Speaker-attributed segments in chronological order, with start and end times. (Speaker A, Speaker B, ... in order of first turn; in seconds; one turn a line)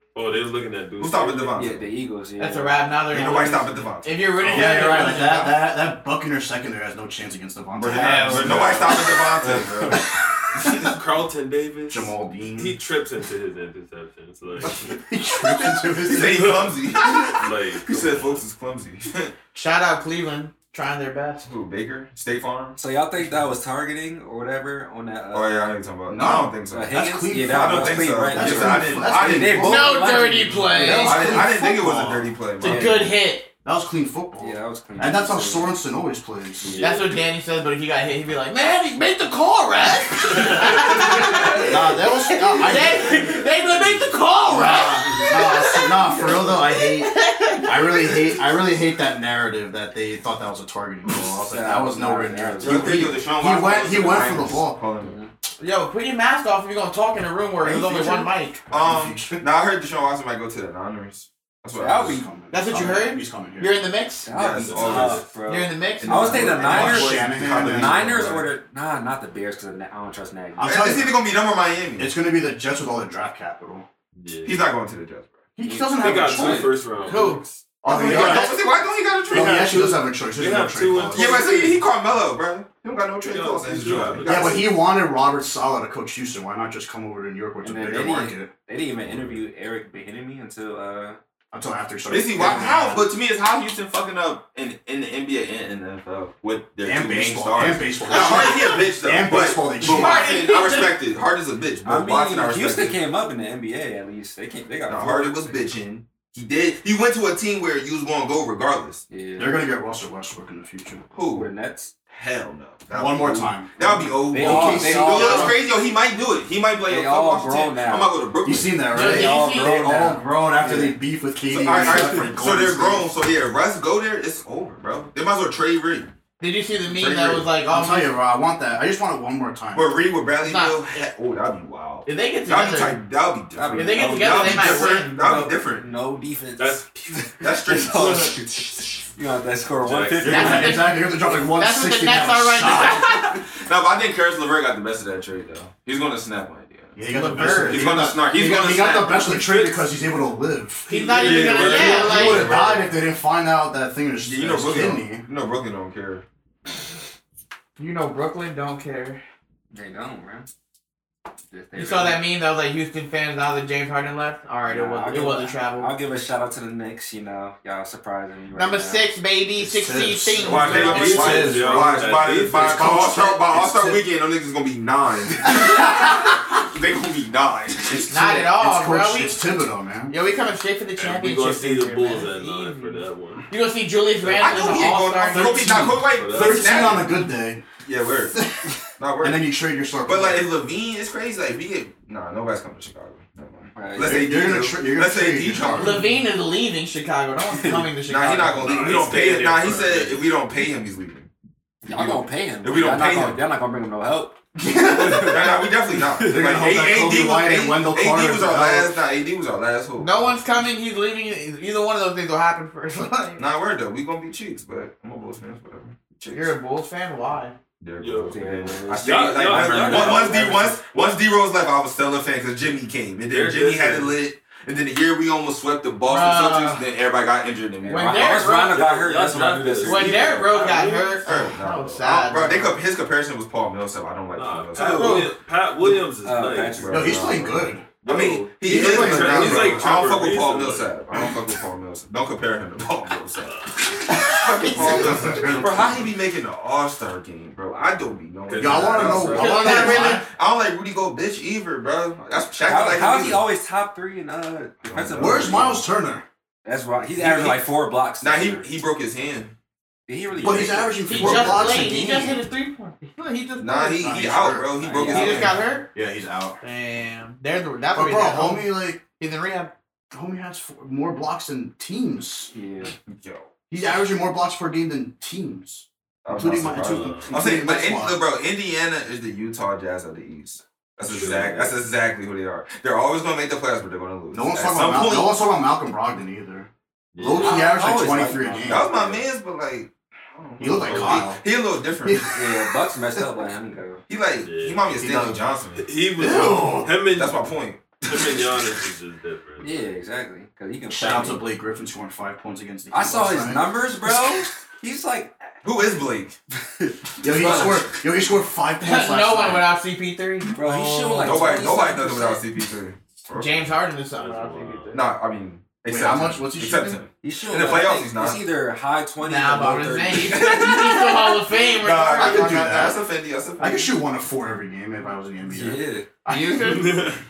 Speaker A: 0.1-1.8
Speaker B: 1.0-1.8
Speaker C: 1.5-2.9
Speaker D: 2.4-5.5
Speaker B: 3.1-4.9
Speaker E: 4.4-9.2
Speaker C: 4.7-5.2
Speaker B: 7.8-10.1
Speaker D: 7.9-9.5
Speaker A: 10.6-14.9
Speaker E: 11.9-12.8
Speaker E: 14.6-16.6
Speaker B: 16.0-19.3
Speaker A: 16.1-18.4
Speaker D: 19.5-21.5
Speaker B: 21.4-22.8
Speaker C: 22.8-25.6
Speaker B: 25.3-29.6
Speaker E: 26.1-30.0
Speaker C: 26.7-31.2
Speaker D: 29.6-31.5
Speaker E: 30.8-32.3
Speaker B: 31.0-33.0
Speaker D: 32.6-33.5
Speaker C: 32.6-33.2
Speaker E: 33.6-36.8
Speaker C: 34.4-35.8
Speaker A: 36.6-37.3
Speaker D: 36.8-48.2
Speaker E: 41.6-43.2
Speaker E: 44.4-54.8
Speaker C: 51.4-53.1
Speaker B: 52.6-55.2
Speaker C: 55.0-55.3
Speaker D: 55.6-58.7
Speaker B: 57.6-62.8
Speaker E: 58.7-59.4
Speaker E: 61.8-63.8
Speaker C: 61.8-62.2
Speaker D: 62.5-64.3
Speaker C: 64.2-70.9
Speaker B: 64.3-65.3
Speaker A: 64.6-65.3
Speaker D: 65.4-66.6
Speaker B: 66.0-68.5
Speaker E: 66.3-68.0
Speaker E: 70.6-71.2
Speaker B: 70.6-72.1
Speaker E: 72.0-73.9
Speaker A: 74.1-74.7
Speaker B: 74.4-75.3
Speaker E: 75.6-78.6
Speaker A: 76.0-77.4
Speaker B: 76.2-79.8
Speaker A: 78.0-78.5
Speaker E: 79.3-81.5
Speaker A: 79.4-79.8
Speaker A: 80.3-81.8
Speaker B: 81.1-84.8
Speaker A: 83.2-84.7
Speaker E: 84.2-88.5
Speaker C: 87.6-91.2
Speaker B: 89.0-89.4
Speaker E: 91.5-93.1
Speaker B: 92.1-103.0
Speaker E: 96.8-100.4
Speaker D: 98.1-98.8
Speaker D: 99.8-101.0
Speaker C: 101.8-105.8
Speaker B: 104.9-109.0
Speaker C: 109.1-109.6
Speaker E: 109.4-111.0
Speaker B: 111.1-111.5
Speaker C: 111.3-111.9
Speaker B: 112.1-118.8
Speaker E: 112.9-115.6
Speaker C: 114.3-115.5
Speaker C: 116.9-118.2
Speaker E: 118.4-123.1
Speaker D: 118.9-120.0
Speaker C: 118.9-121.0
Speaker B: 121.5-126.1
Speaker C: 121.8-122.2
Speaker D: 126.4-128.1
Speaker B: 126.9-127.5
Speaker E: 127.7-130.0
Speaker B: 129.7-135.8
Speaker D: 130.4-130.8
Speaker D: 132.0-133.0
Speaker C: 133.5-135.0
Speaker D: 133.7-135.6
Speaker C: 135.7-140.9
Speaker A: 136.6-137.0
Speaker B: 137.4-138.4
Speaker A: 139.8-140.7
Speaker E: 140.2-143.1
Speaker D: 140.2-143.3
Speaker B: 142.6-149.6
Speaker E: 146.9-155.3
Speaker D: 147.1-147.9
Speaker A: 149.3-149.8
Speaker D: 150.9-152.5
Speaker B: 150.9-152.9
Speaker A: 151.1-151.9
Speaker B: 154.2-156.2
Speaker D: 157.8-159.2
Speaker C: 159.7-160.5
Speaker C: 161.5-162.2
Speaker D: 161.7-165.9
Speaker C: 164.7-169.1
Speaker D: 168.5-171.4
Speaker E: 169.6-174.0
Speaker B: 170.4-178.5
Speaker A: 170.8-172.9
Speaker D: 178.0-179.4
Speaker E: 178.2-180.1
Speaker D: 180.1-185.9
Speaker A: 181.0-183.4
Speaker B: 184.2-187.2
Speaker A: 184.6-184.8
Speaker E: 185.3-187.6
Speaker A: 186.1-187.1
Speaker B: 187.8-188.4
Speaker E: 188.3-190.5
Speaker B: 189.0-189.5
Speaker B: 190.0-196.1
Speaker C: 193.7-194.3
Speaker E: 194.0-196.0
Speaker D: 195.7-199.1
Speaker B: 198.0-201.3
Speaker A: 198.6-200.3
Speaker C: 201.8-204.4
Speaker B: 201.9-203.4
Speaker E: 204.6-205.5
Speaker C: 204.9-205.3
Speaker B: 204.9-210.4
Speaker E: 206.2-209.0
Speaker D: 210.0-213.4
Speaker B: 213.4-216.6
Speaker D: 216.3-217.6
Speaker B: 217.8-228.4
Speaker A: 218.0-220.8
Speaker C: 218.3-220.5
Speaker A: 223.3-224.2
Speaker D: 226.0-226.8
Speaker C: 227.8-230.5
Speaker D: 227.9-229.1
Speaker A: 228.7-231.2
Speaker D: 229.8-232.8
Speaker B: 231.2-235.3
Speaker A: 234.3-236.9
Speaker D: 234.7-235.3
Speaker C: 236.2-237.5
Speaker B: 236.8-243.6
Speaker E: 236.9-237.9
Speaker A: 238.0-241.3
Speaker E: 238.6-239.9
Speaker A: 243.4-243.9
Speaker D: 244.0-245.2
Speaker B: 244.3-253.4
Speaker E: 244.7-246.1
Speaker A: 248.4-249.5
Speaker E: 248.5-250.2
Speaker D: 249.2-250.2
Speaker C: 252.6-255.8
Speaker B: 254.8-255.8
Speaker E: 255.2-256.2
Speaker C: 256.6-258.6
Speaker B: 257.1-257.7
Speaker B: 258.2-259.5
Speaker C: 260.1-261.3
Speaker E: 260.4-262.4
Speaker B: 260.6-261.9
Speaker D: 261.0-264.3
Speaker B: 263.6-265.6
Speaker E: 264.0-266.6
Speaker C: 264.8-265.8
Speaker D: 265.0-265.8
Speaker D: 266.6-269.7
Speaker E: 267.9-269.0
Speaker E: 270.1-272.5
Speaker C: 272.5-272.9
Speaker B: 273.1-273.5
Speaker E: 273.7-278.2
Speaker B: 276.2-285.4
Speaker A: 276.7-277.4
Speaker A: 281.0-281.8
Speaker E: 284.3-288.9
Speaker A: 287.1-287.6
Speaker C: 287.4-289.2
Speaker D: 287.4-287.8
Speaker B: 288.6-292.3
Speaker E: 290.6-291.4
Speaker A: 290.8-291.3
Speaker E: 292.0-292.4
Speaker C: 292.3-294.0
Speaker B: 294.1-295.9
Speaker A: 294.4-294.9
Speaker E: 294.9-295.4
Speaker A: 295.8-297.5
Speaker E: 296.2-297.0
Speaker B: 297.1-298.6
Speaker A: 298.1-299.8
Speaker C: 299.6-301.4
Speaker E: 300.9-304.2
Speaker C: 302.9-305.6
Speaker B: 305.6-306.4
Speaker C: 306.8-307.8
Speaker E: 307.2-309.7
Speaker B: 307.3-307.9
Speaker D: 308.8-311.6
Speaker C: 310.5-312.4
Speaker B: 311.2-313.7
Speaker D: 313.3-315.1
Speaker A: 314.1-314.9
Speaker B: 314.9-318.4
Speaker E: 315.9-317.0
Speaker C: 317.2-321.4
Speaker D: 319.2-323.0
Speaker B: 321.7-324.0
Speaker E: 322.1-323.0
Speaker E: 323.6-326.3
Speaker C: 325.5-326.1
Speaker D: 326.2-327.2
Speaker A: 326.5-327.2